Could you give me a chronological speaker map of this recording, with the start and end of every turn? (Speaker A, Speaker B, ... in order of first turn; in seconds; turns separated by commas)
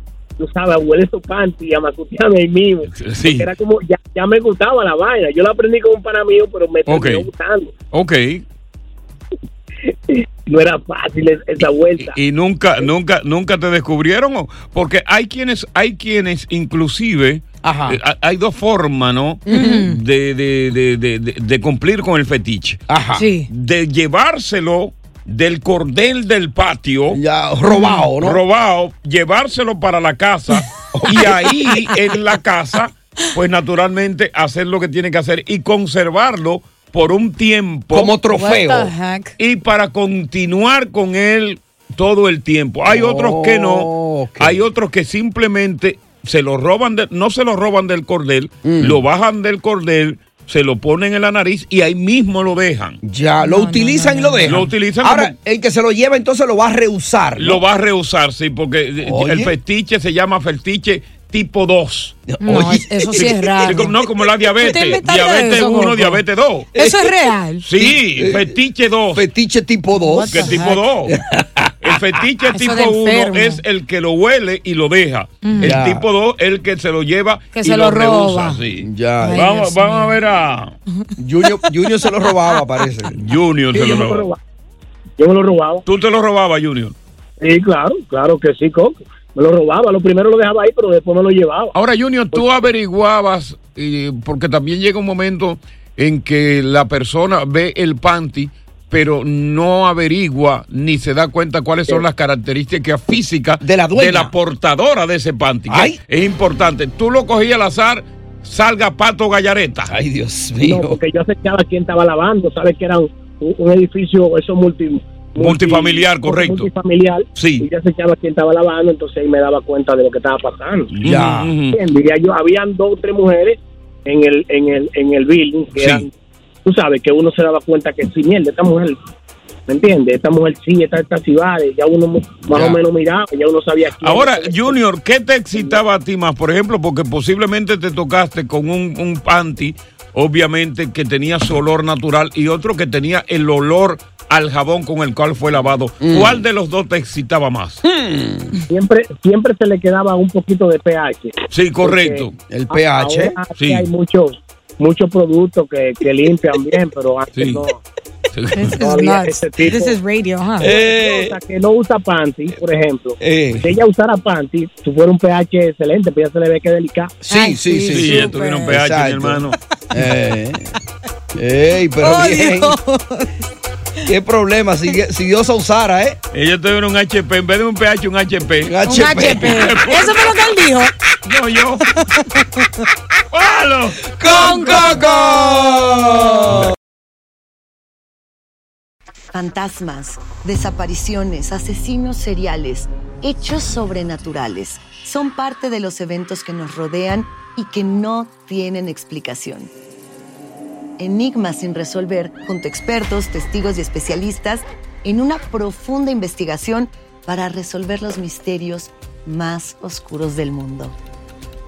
Speaker A: 0.4-7.7, Speaker B: 2.9-3.5, Speaker B: 6.9-7.3, Speaker B: 7.9-8.4, Speaker A: 9.9-12.2, Speaker B: 12.0-22.8, Speaker C: 17.6-18.0, Speaker C: 19.5-19.9, Speaker D: 19.5-20.0, Speaker C: 22.9-23.3, Speaker D: 23.1-23.5, Speaker B: 23.5-27.2, Speaker C: 27.1-28.4, Speaker D: 27.7-28.1, Speaker B: 28.2-38.1, Speaker C: 30.9-31.8, Speaker C: 37.9-38.9, Speaker D: 38.2-39.3, Speaker B: 39.4-53.0, Speaker C: 42.9-44.6, Speaker C: 48.6-49.0, Speaker C: 53.0-57.6, Speaker D: 53.4-54.6, Speaker B: 54.4-55.3, Speaker B: 57.4-62.2, Speaker C: 59.0-59.6, Speaker C: 62.3-63.9, Speaker D: 62.4-66.2, Speaker B: 63.6-66.7, Speaker D: 66.7-67.6, Speaker C: 66.7-67.2, Speaker B: 67.6-69.2, Speaker C: 67.7-68.6, Speaker C: 69.1-72.2, Speaker D: 69.9-70.8, Speaker B: 70.3-71.1, Speaker B: 71.8-78.8, Speaker D: 72.5-73.6, Speaker D: 75.4-75.8, Speaker C: 75.6-76.0, Speaker D: 77.5-78.6, Speaker C: 78.7-79.4, Speaker D: 79.2-80.2, Speaker B: 79.3-80.7, Speaker C: 81.2-83.2, Speaker B: 83.2-84.3, Speaker A: 83.7-84.4, Speaker A: 85.2-85.8, Speaker B: 85.9-86.9, Speaker A: 87.4-91.7, Speaker B: 91.7-109.9, Speaker C: 103.6-104.3, Speaker C: 105.7-106.0, Speaker C: 109.9-111.0, Speaker A: 110.6-120.9, Speaker B: 115.4-116.7, Speaker B: 117.3-117.7, Speaker B: 120.9-121.8, Speaker C: 121.0-121.5, Speaker A: 121.7-126.1, Speaker B: 125.8-126.1, Speaker A: 126.6-129.0, Speaker A: 129.7-134.8, Speaker B: 132.5-132.8, Speaker B: 134.0-147.8, Speaker A: 135.5-135.8, Speaker C: 146.0-146.4, Speaker C: 147.8-148.5, Speaker A: 148.7-157.8, Speaker B: 151.5-152.3, Speaker C: 152.5-153.4, Speaker B: 153.6-153.9, Speaker B: 157.4-157.6, Speaker B: 158.3-158.8, Speaker D: 158.5-160.7, Speaker A: 158.8-160.0, Speaker C: 160.6-161.4, Speaker A: 160.6-167.2, Speaker C: 163.2-163.6, Speaker C: 167.2-170.7, Speaker D: 167.3-168.7, Speaker B: 167.9-169.6, Speaker C: 171.3-172.8, Speaker D: 172.0-173.3, Speaker C: 174.1-176.2, Speaker B: 176.3-180.4, Speaker C: 178.6-179.8, Speaker D: 178.8-180.9, Speaker B: 181.2-181.9, Speaker B: 183.3-184.1, Speaker C: 184.2-186.7, Speaker D: 184.2-185.3, Speaker E: 189.3-199.7, Speaker E: 201.0-210.9